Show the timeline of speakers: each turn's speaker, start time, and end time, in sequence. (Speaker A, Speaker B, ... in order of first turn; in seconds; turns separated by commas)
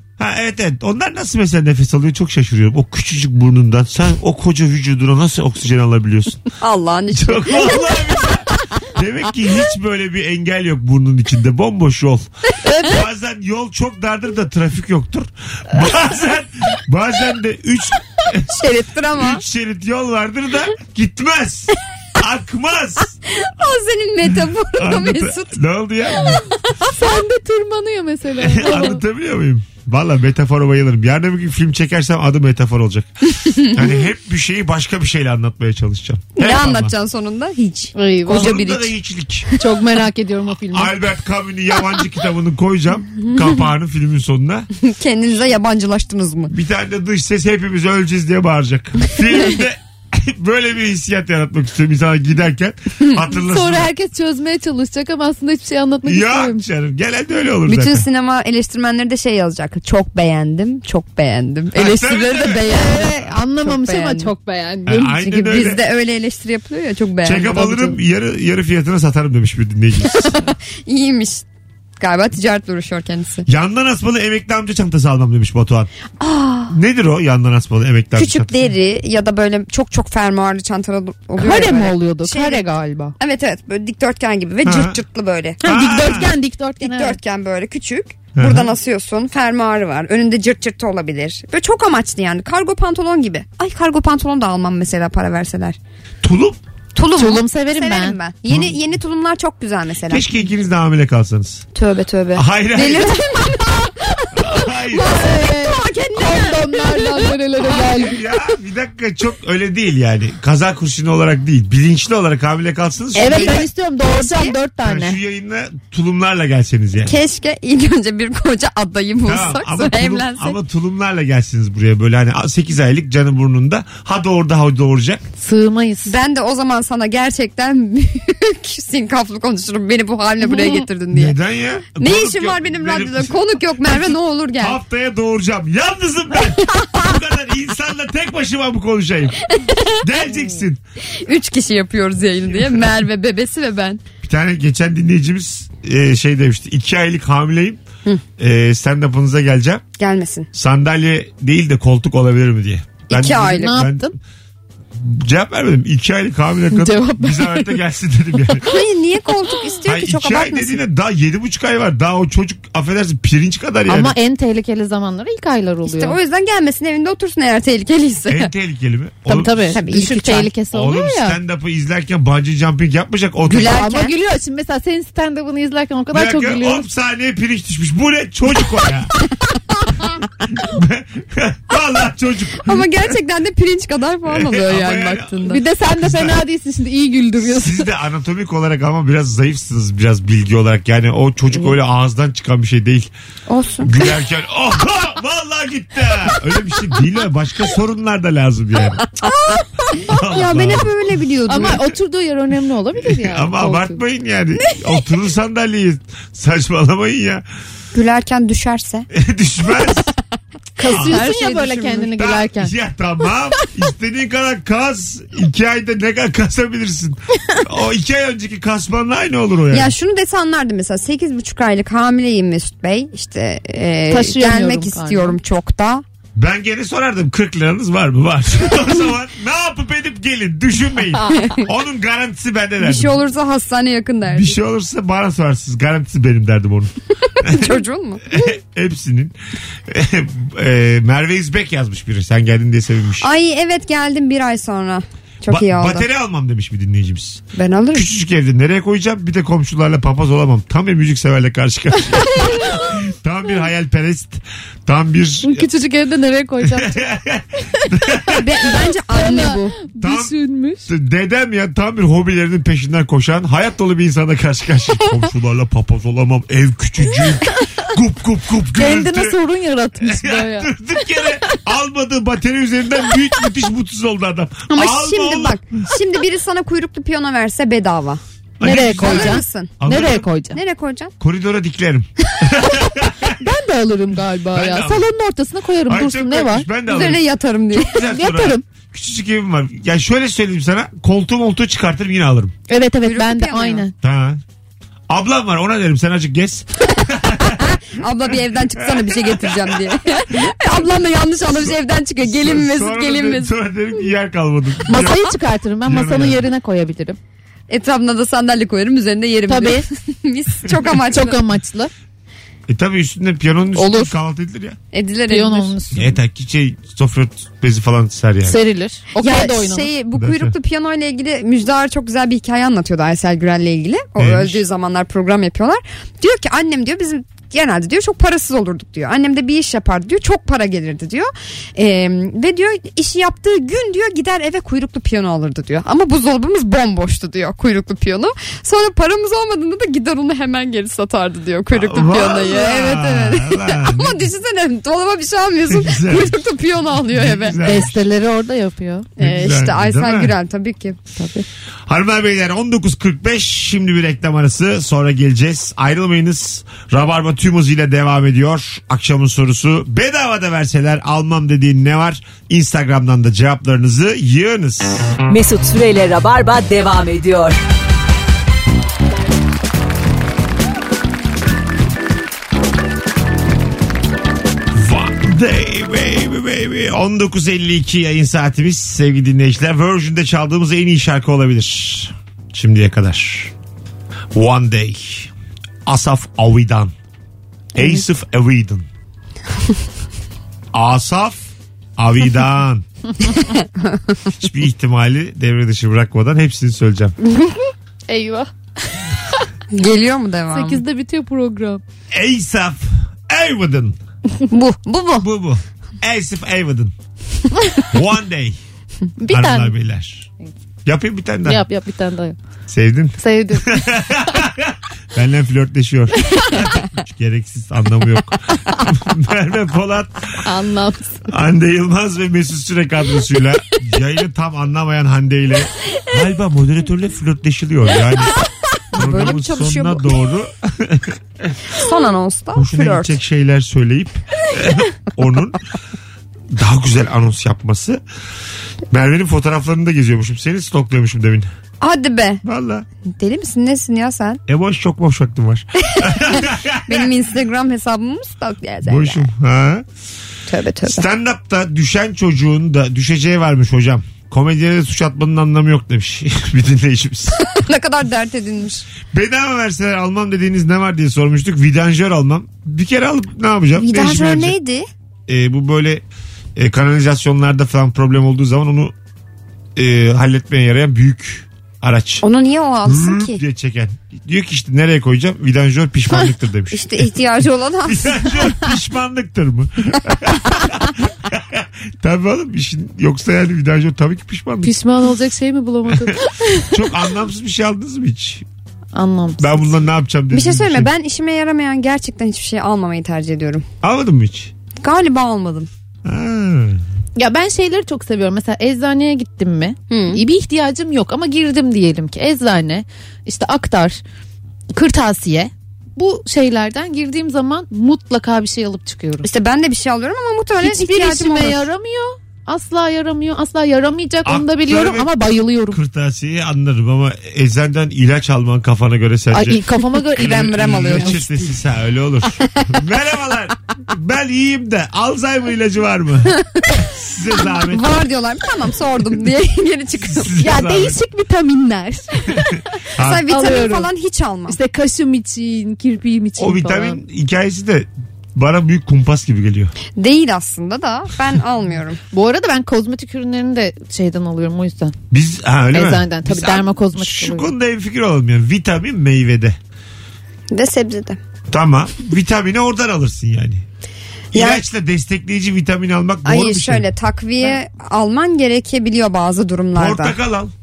Speaker A: 0.2-6.4, Speaker B: 6.6-8.2, Speaker A: 7.1-18.6, Speaker B: 18.5-19.4, Speaker A: 19.1-23.1, Speaker B: 23.3-25.5, Speaker A: 24.8-26.5, Speaker C: 26.8-29.0, Speaker A: 28.4-36.9, Speaker B: 33.4-33.9, Speaker B: 36.4-38.9, Speaker C: 37.9-38.6, Speaker A: 38.3-39.5, Speaker C: 39.6-41.0, Speaker A: 40.7-44.7, Speaker B: 44.8-46.5, Speaker A: 46.5-53.9, Speaker C: 53.4-56.6, Speaker A: 56.0-58.1, Speaker B: 57.6-64.3, Speaker A: 61.7-63.0, Speaker C: 62.7-65.2, Speaker A: 64.9-65.8, Speaker B: 65.2-67.9, Speaker A: 67.2-70.4, Speaker B: 70.1-71.4, Speaker B: 72.0-73.5, Speaker A: 73.5-75.9, Speaker B: 76.2-76.7, Speaker A: 76.7-78.7, Speaker B: 78.1-82.7, Speaker C: 81.4-83.1, Speaker B: 83.2-85.6, Speaker A: 84.6-85.0, Speaker C: 85.6-87.2, Speaker A: 85.6-86.3, Speaker B: 86.8-95.8, Speaker A: 88.3-88.7, Speaker A: 96.2-96.6, Speaker B: 96.9-100.3, Speaker C: 97.2-98.2, Speaker A: 98.5-98.8, Speaker A: 100.1-101.7, Speaker B: 101.7-107.8, Speaker A: 102.3-103.4, Speaker A: 104.3-105.2, Speaker C: 105.0-108.2, Speaker A: 107.6-113.7, Speaker C: 113.1-115.2, Speaker B: 113.3-114.5, Speaker A: 114.8-117.2, Speaker B: 117.0-120.6, Speaker A: 119.2-125.2, Speaker C: 125.4-126.1, Speaker B: 126.0-131.3, Speaker A: 131.1-139.4, Speaker B: 132.0-134.8, Speaker B: 139.5-140.0, Speaker A: 140.0-140.8, Speaker B: 141.2-144.0, Speaker A: 144.2-147.8, Speaker A: 148.4-149.8, Speaker B: 150.0-150.5, Speaker A: 150.5-154.1, Speaker B: 153.1-153.8, Speaker C: 153.6-154.1, Speaker A: 154.9-158.7, Speaker C: 156.7-157.8, Speaker B: 158.7-160.8, Speaker A: 159.8-164.1, Speaker C: 163.9-166.2, Speaker B: 165.8-168.5, Speaker A: 168.3-169.8, Speaker C: 169.3-171.4, Speaker B: 169.7-170.5, Speaker A: 170.7-173.8, Speaker B: 173.5-174.1, Speaker C: 173.7-176.9, Speaker A: 176.1-179.1, Speaker A: 180.6-183.1, Speaker B: 182.6-185.6, Speaker A: 184.2-186.4, Speaker C: 185.4-187.8, Speaker A: 187.4-193.1, Speaker B: 193.5-193.9, Speaker A: 193.8-199.0, Speaker B: 199.2-201.8, Speaker A: 200.1-200.9, Speaker C: 201.5-204.0, Speaker A: 201.5-201.9, Speaker A: 203.0-207.4, Speaker B: 207.9-209.1, Speaker A: 209.1-210.1, Speaker C: 210.8-212.7, Speaker B: 210.8-212.1, Speaker A: 210.9-211.2, Speaker A: 212.2-219.9, Speaker B: 219.7-226.0, Speaker C: 224.1-225.4, Speaker A: 226.3-233.2, Speaker B: 232.8-234.6, Speaker A: 234.3-237.8, Speaker B: 237.4-238.3, Speaker A: 238.3-243.3, Speaker B: 243.2-246.1, Speaker A: 245.5-255.7, Speaker B: 247.5-248.1, Speaker C: 255.4-257.0, Speaker A: 256.6-258.4, Speaker B: 258.3-259.8, Speaker C: 259.1-260.9, Speaker A: 260.0-260.3, Speaker A: 260.9-269.4, Speaker C: 268.7-270.7, Speaker A: 270.0-275.6, Speaker B: 274.7-279.8, Speaker A: 278.6-280.3, Speaker C: 278.6-280.6, Speaker B: 280.5-281.1, Speaker A: 281.2-283.4, Speaker C: 283.4-286.7, Speaker A: 284.5-285.1, Speaker A: 285.9-292.5, Speaker B: 286.9-287.9, Speaker C: 288.1-288.6, Speaker C: 292.7-293.9, Speaker B: 293.0-293.8, Speaker A: 294.0-294.4, Speaker A: 295.1-297.8, Speaker B: 297.5-303.5, Speaker A: 299.0-299.6, Speaker A: 301.5-305.3, Speaker C: 304.9-307.2, Speaker A: 305.8-306.4, Speaker B: 307.7-311.4, Speaker C: 309.5-309.9, Speaker C: 311.1-311.9, Speaker A: 312.7-314.8, Speaker C: 313.7-314.1, Speaker B: 314.9-315.8, Speaker C: 315.3-316.1, Speaker A: 315.9-318.6, Speaker C: 318.4-319.9, Speaker B: 319.2-347.6, Speaker A: 320.1-320.5, Speaker A: 324.2-324.6, Speaker A: 341.7-344.3, Speaker A: 345.7-346.4, Speaker A: 347.1-348.0, Speaker C: 347.6-349.1, Speaker B: 349.2-351.0, Speaker A: 349.2-350.4, Speaker C: 351.1-351.4, Speaker A: 351.9-365.1, Speaker D: 365.3-367.6, Speaker A: 374.7-383.5, Speaker A: 384.3-385.3, Speaker A: 385.9-386.9, Speaker A: 387.7-388.9, Speaker B: 387.8-388.0, Speaker A: 390.7-392.8, Speaker A: 394.4-397.1, Speaker C: 398.1-399.5, Speaker B: 399.7-400.8, Speaker C: 400.5-401.8, Speaker A: 402.1-404.0, Speaker B: 404.5-405.3, Speaker A: 405.2-406.9, Speaker A: 407.9-408.6, Speaker C: 409.2-409.7, Speaker A: 409.3-410.3, Speaker A: 410.8-411.6, Speaker C: 411.4-412.4, Speaker A: 412.7-420.4, Speaker C: 413.2-414.0, Speaker C: 420.4-421.2, Speaker A: 421.3-428.3, Speaker B: 428.9-430.2, Speaker A: 428.9-431.5, Speaker B: 431.7-433.1, Speaker A: 432.5-435.6, Speaker A: 436.5-438.0, Speaker A: 438.9-441.5, Speaker B: 441.8-442.4, Speaker A: 442.4-442.9, Speaker B: 443.1-444.4, Speaker A: 444.5-447.1, Speaker B: 446.0-449.3, Speaker A: 448.8-449.9, Speaker B: 450.5-451.0, Speaker A: 450.8-457.4, Speaker B: 457.4-458.9, Speaker A: 459.1-464.6, Speaker B: 463.8-464.9, Speaker A: 465.3-466.0, Speaker A: 466.6-468.9, Speaker A: 469.8-472.2, Speaker B: 472.2-473.4, Speaker A: 472.9-477.1, Speaker B: 476.7-478.6, Speaker A: 477.9-484.8, Speaker C: 484.6-486.8, Speaker A: 485.9-486.1, Speaker A: 486.7-488.4, Speaker C: 488.9-489.8, Speaker A: 489.4-490.9, Speaker B: 490.3-493.6, Speaker A: 493.8-494.5, Speaker B: 494.8-495.7, Speaker A: 496.0-496.8, Speaker C: 497.1-504.0, Speaker B: 499.9-500.2, Speaker C: 504.7-509.3, Speaker B: 509.2-511.7, Speaker C: 510.6-515.8, Speaker A: 514.2-515.1, Speaker A: 515.7-519.6, Speaker C: 519.3-521.2, Speaker A: 520.1-527.9, Speaker B: 520.2-521.5, Speaker B: 527.6-530.4, Speaker A: 530.0-531.0, Speaker C: 530.4-532.6, Speaker A: 533.0-533.3, Speaker B: 533.0-534.6, Speaker C: 533.2-533.9, Speaker C: 534.5-537.0, Speaker A: 536.4-539.7, Speaker B: 540.0-542.0, Speaker C: 542.1-544.9, Speaker A: 545.1-549.6, Speaker C: 545.7-547.5, Speaker B: 550.5-551.2, Speaker A: 551.5-553.6, Speaker A: 554.3-556.9, Speaker B: 554.3-554.6, Speaker B: 556.2-560.1, Speaker A: 559.7-560.5